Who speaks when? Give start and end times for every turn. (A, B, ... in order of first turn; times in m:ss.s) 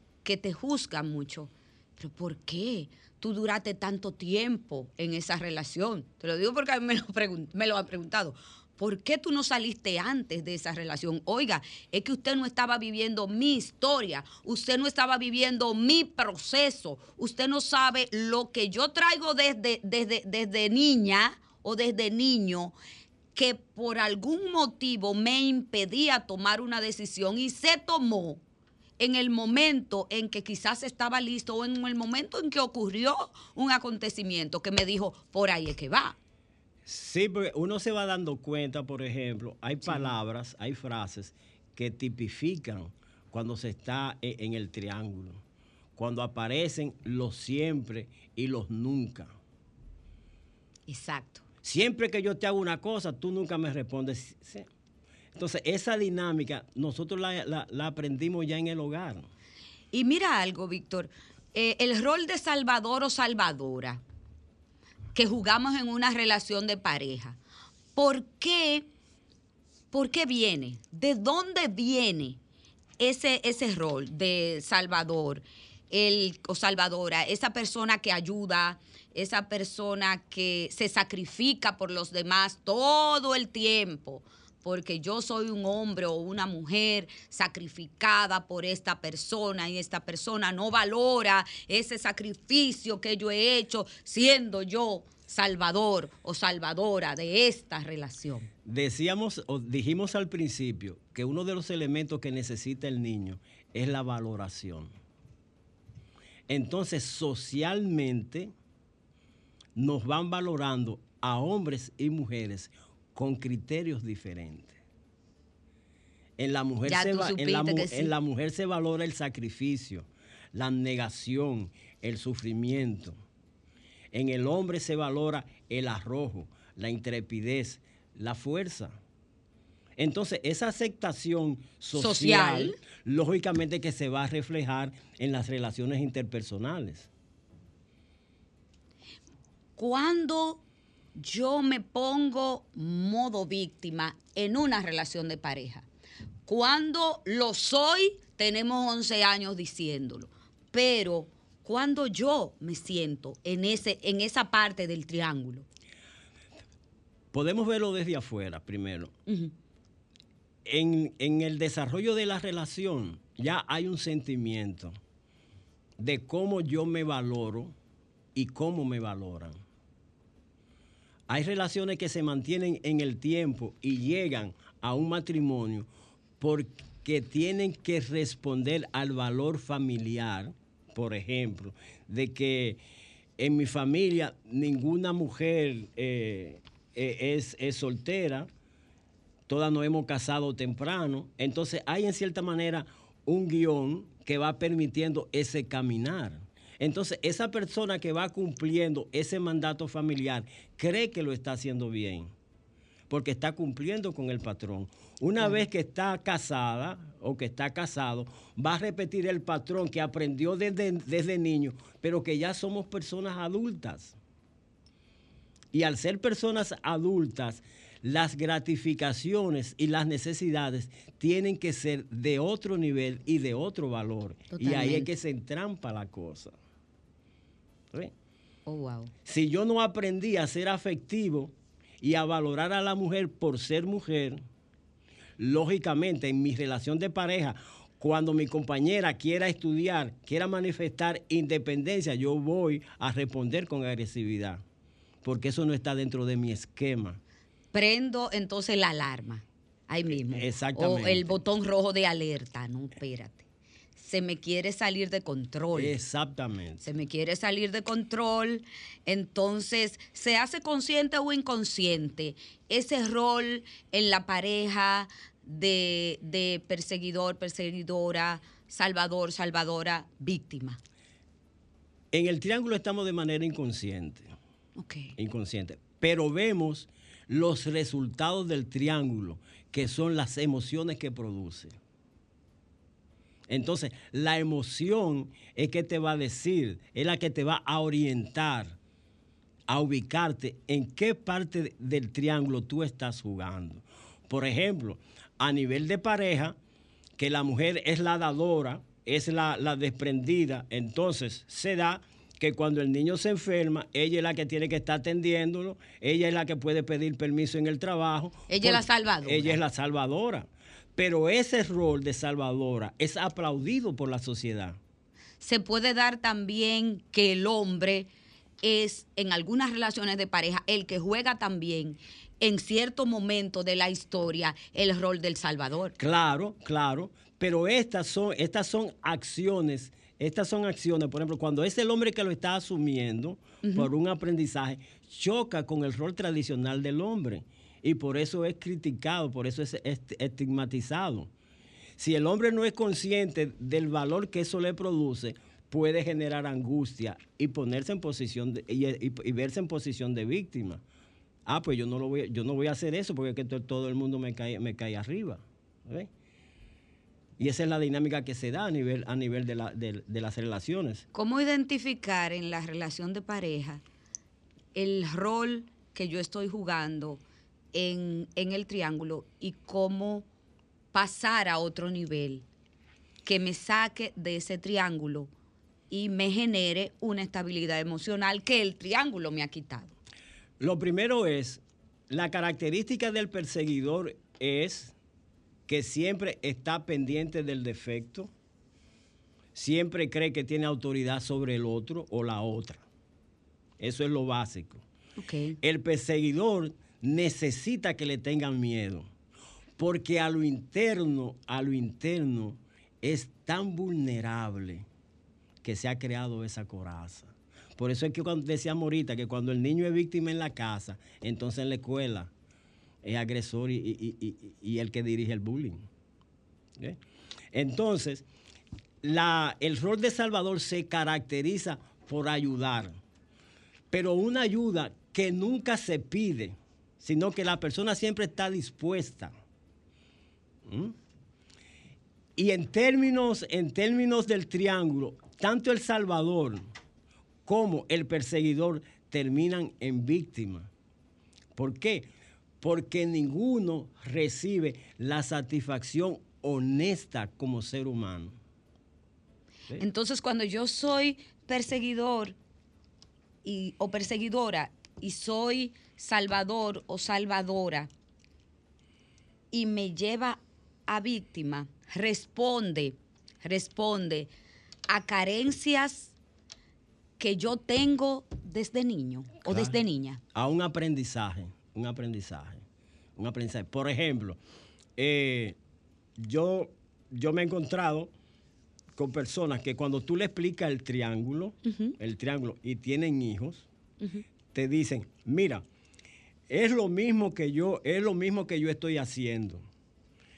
0:00.2-0:22.7 A
0:23.4-0:28.4 A
0:29.0-0:36.2 A
0:36.9-0:45.4 B
0:39.8-0:40.1 A
0:46.0-0:49.3 B
0:50.9-0:51.4 A
0:51.6-0:54.7 B
0:55.4-0:59.3 B
0:59.9-1:04.0 A
1:05.1-1:07.4 A
1:08.0-1:08.9 A
1:09.9-1:12.4 A
1:13.0-1:38.5 A
1:38.6-1:44.9 B
1:46.5-1:48.5 B
1:49.7-1:54.8 B
1:56.4-2:03.2 B
1:56.8-1:58.1 A
2:04.1-2:09.0 B
2:10.0-2:17.1 B
2:11.9-2:12.8 A
2:19.8-2:20.6 A
2:21.2-2:25.9 A
2:26.4-2:35.6 A
2:37.3-2:39.1 B
2:39.3-2:39.5 A
2:40.6-2:45.0 B
2:46.0-2:47.7 B
2:48.4-2:49.6 B
2:51.3-2:55.9 B
2:56.4-3:02.8 B
3:03.4-3:08.5 B
3:09.5-3:22.3 B
3:23.1-3:34.2 B
3:35.7-3:46.6 B
3:44.5-3:45.1 A
3:48.6-3:49.1 A
3:49.2-3:54.4 B
3:55.4-4:04.6 B
4:05.2-4:07.2 B
4:07.7-4:13.4 A
4:10.3-4:11.4 B
4:14.0-4:16.0 A
4:15.7-4:16.8 B
4:16.8-4:30.8 A
4:32.1-4:34.3 B
4:34.8-4:35.1 A
4:35.2-4:41.8 B
4:43.5-4:48.8 B
4:49.7-4:56.6 B
4:57.2-5:14.8 B
5:08.5-5:09.6 A
5:15.4-5:18.1 A
5:18.6-5:26.0 A
5:26.0-5:41.3 B
5:33.6-5:33.9 A
5:42.0-5:50.8 B
5:51.4-5:56.1 B
5:57.4-6:01.0 B
6:01.1-6:03.8 A
6:04.7-6:07.2 A
6:07.7-6:10.3 A
6:10.9-6:12.4 A
6:13.3-6:15.3 A
6:15.9-6:20.0 A
6:20.6-6:24.9 B
6:25.7-6:28.3 B
6:29.6-6:32.8 B
6:33.8-6:34.8 B
6:35.2-6:35.6 A
6:35.6-6:39.1 B
6:39.8-6:44.9 B
6:45.6-6:52.3 B
6:53.0-6:55.9 B
6:57.5-6:58.2 B
6:59.0-7:03.0 B
7:03.9-7:09.3 B
7:10.6-7:11.0 B
7:12.4-7:16.7 B
7:17.4-7:20.7 B
7:21.6-7:22.1 B
7:22.6-7:28.4 B
7:29.8-7:32.3 A
7:33.4-7:37.9 A
7:39.5-7:44.3 A
7:44.9-7:46.1 A
7:47.2-7:50.2 A
7:49.4-7:49.8 B
7:50.3-7:52.6 B
7:53.2-7:54.4 B
7:55.0-7:55.6 B
7:56.2-7:58.1 B
7:59.0-8:03.7 B
8:01.6-8:02.0 A
8:04.5-8:05.6 B
8:06.5-8:09.7 B